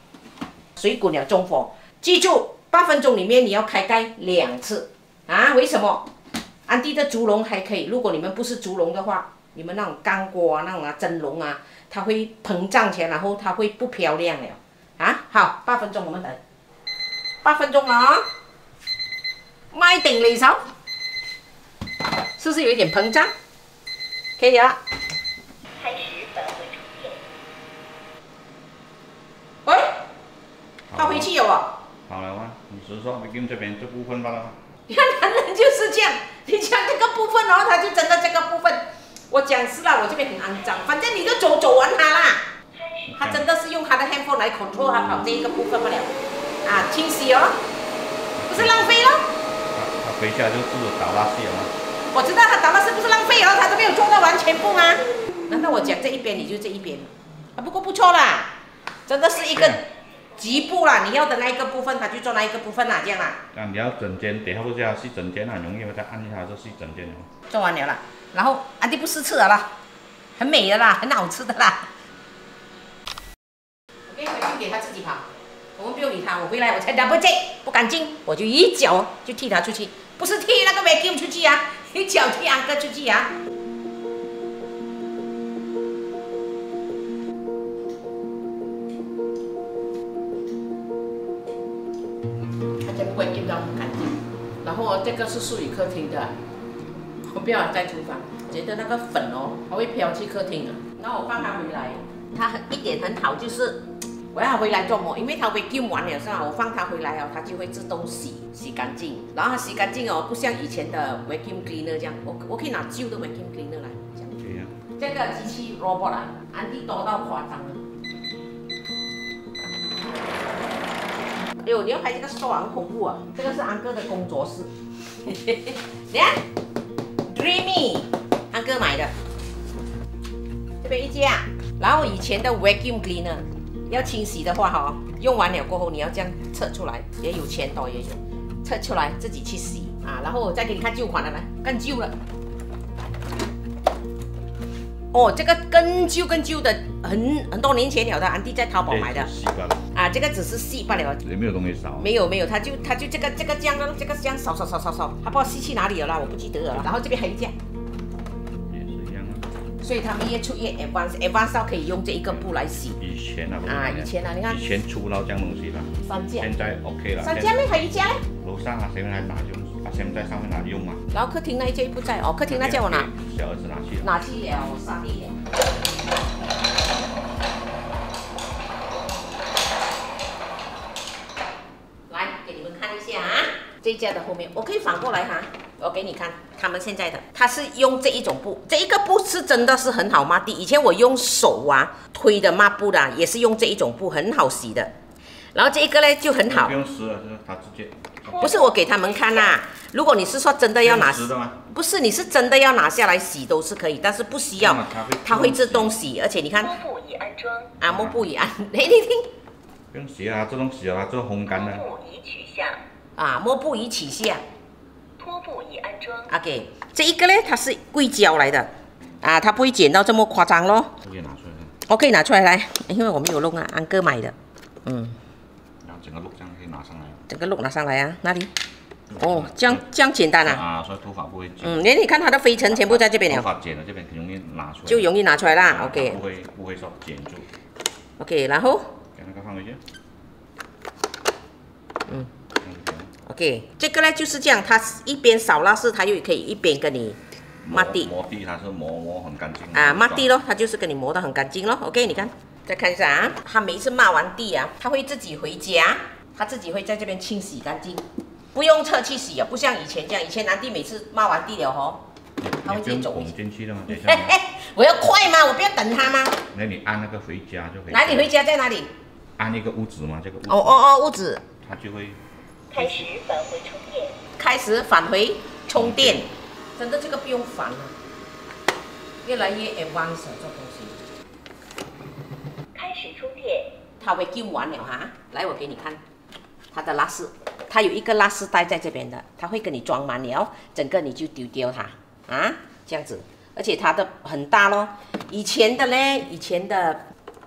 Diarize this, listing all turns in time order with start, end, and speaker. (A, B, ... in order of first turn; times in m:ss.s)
0:00.8-0:06.1 A
0:06.7-0:16.4 A
0:17.4-0:18.2 A
0:19.7-0:20.6 A
0:22.4-0:23.3 A
0:24.4-0:24.8 A
0:25.8-0:27.2 B
0:29.6-0:30.0 A
0:30.9-0:31.3 C
0:30.9-0:31.8 A
0:32.1-0:34.6 C
0:34.9-0:42.4 A
0:42.7-0:43.2 B
0:43.1-0:43.5 C
0:43.1-0:47.6 A
0:48.3-0:48.9 C
0:48.5-0:49.2 A
0:49.7-0:51.7 C
0:52.1-0:58.5 A
0:59.1-1:03.4 A
0:59.5-0:59.8 C
1:03.5-1:07.3 C
1:07.5-1:09.7 A
1:10.4-1:11.9 A
1:14.1-1:15.2 A
1:15.8-1:23.3 A
1:32.8-1:36.3 A
1:37.3-1:54.4 A
1:54.4-1:54.7 C
1:55.0-1:57.8 A
2:01.6-2:04.7 A
2:05.2-2:06.4 A
2:07.3-2:09.1 A
2:10.8-2:22.1 A
2:25.1-2:29.3 A
2:28.8-2:29.8 C
2:29.9-2:31.2 A
2:31.2-2:32.1 C
2:32.0-2:37.5 A
2:38.7-2:39.4 C
2:39.8-2:43.0 A
2:42.3-2:47.6 C
2:43.6-2:44.6 A
2:46.0-2:46.5 A
2:47.2-2:48.2 A
2:48.4-2:51.0 C
2:51.1-2:53.1 A
2:52.5-2:54.2 C
2:54.0-2:55.4 A
3:02.1-3:14.9 A
3:15.5-3:16.7 A
3:16.5-3:18.6 C
3:18.2-3:19.6 B
3:18.4-3:26.8 A
3:20.8-3:21.6 C
3:24.6-3:26.0 C
3:26.6-3:27.8 B
3:27.8-3:28.2 C
3:27.8-3:29.3 A
3:29.9-3:31.9 C
3:31.5-3:32.8 B
3:33.2-3:34.4 A
3:35.2-3:36.3 B
3:36.3-3:41.0 A
3:41.0-3:41.7 C
3:41.9-3:45.2 A
3:45.8-3:47.2 C
3:47.3-3:48.5 A
3:49.1-3:49.8 C
3:49.2-3:50.6 A
3:50.4-3:51.8 C
3:51.6-3:53.5 A
3:52.6-3:57.5 C
3:54.9-3:56.2 A
3:58.2-3:58.9 A
3:59.1-3:59.8 C
4:02.6-4:03.1 C
4:03.2-4:08.1 A
4:07.6-4:10.3 C
4:09.7-4:22.0 A
4:22.4-4:24.4 C
4:22.6-4:23.3 A
4:23.9-4:26.4 A
4:26.5-4:28.3 C
4:27.9-4:28.9 A
4:29.4-4:30.8 C
4:30.5-4:31.4 A
4:31.6-4:32.2 C
4:32.7-4:34.2 B
4:32.7-4:33.1 C
4:34.4-4:37.9 A
4:35.7-4:36.2 C
4:39.2-4:41.0 A
4:42.7-4:43.7 B
4:44.0-4:46.0 A
4:46.7-4:57.0 A